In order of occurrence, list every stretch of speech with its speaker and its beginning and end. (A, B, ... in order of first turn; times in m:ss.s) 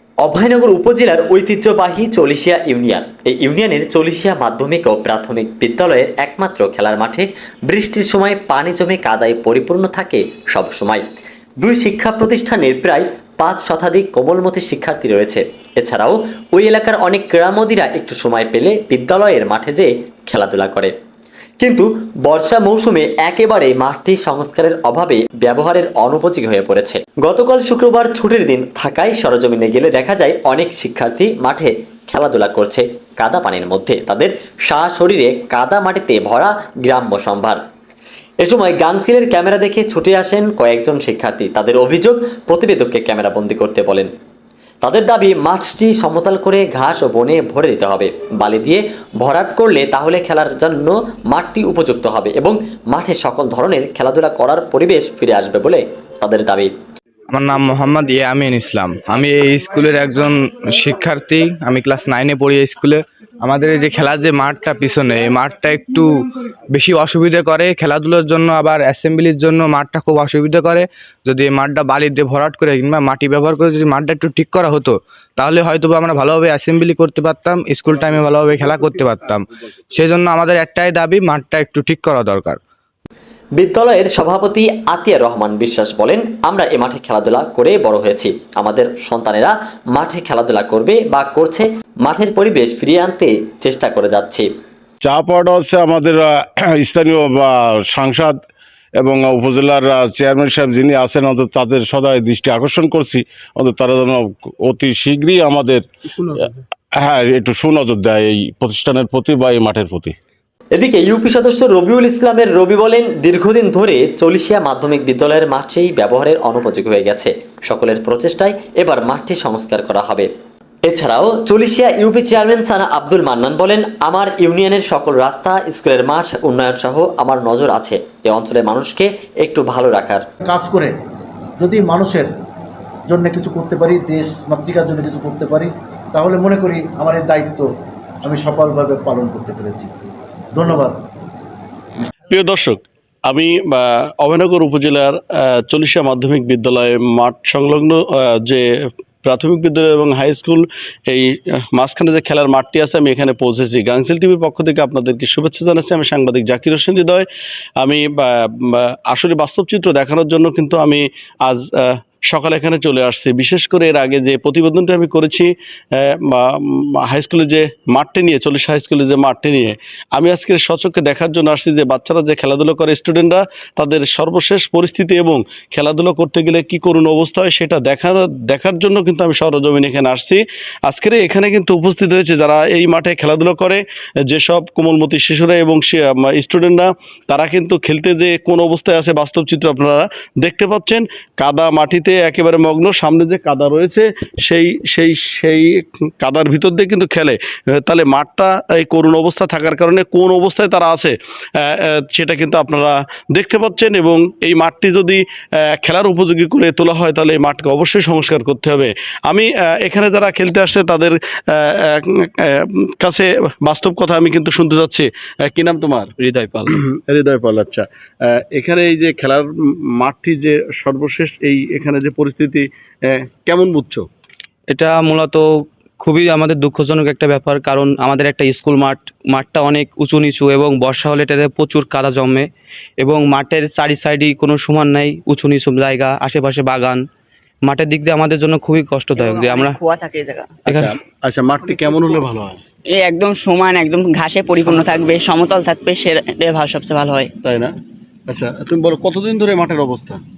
0:00.2-0:11.0 A
0:11.6-0:20.9 A
0:21.6-0:37.6 A
0:38.4-0:44.1 A
0:44.8-0:56.7 A
0:57.3-1:06.1 B
1:06.7-1:22.6 B
1:23.6-1:34.5 A
1:35.0-1:38.4 C
1:39.0-1:45.8 C
1:47.0-1:50.1 C
1:50.7-2:00.3 A
2:00.8-2:10.2 A
2:10.4-2:10.9 D
2:11.6-2:12.3 D
2:13.1-2:17.7 D
2:18.2-2:21.0 D
2:22.3-2:28.6 E
2:29.2-2:37.2 E
2:37.8-3:25.2 E
3:25.8-3:36.1 E
3:36.2-3:36.7 F
3:36.7-3:39.4 E
3:40.0-3:44.0 E
3:44.7-3:45.4 F
3:46.0-3:52.4 F
3:53.0-3:57.0 F
3:57.6-3:59.8 F
3:59.2-4:00.6 G
4:00.6-4:00.9 F
4:00.7-4:02.6 E
4:02.9-4:07.3 G
4:07.4-4:07.7 E
4:08.3-4:10.2 E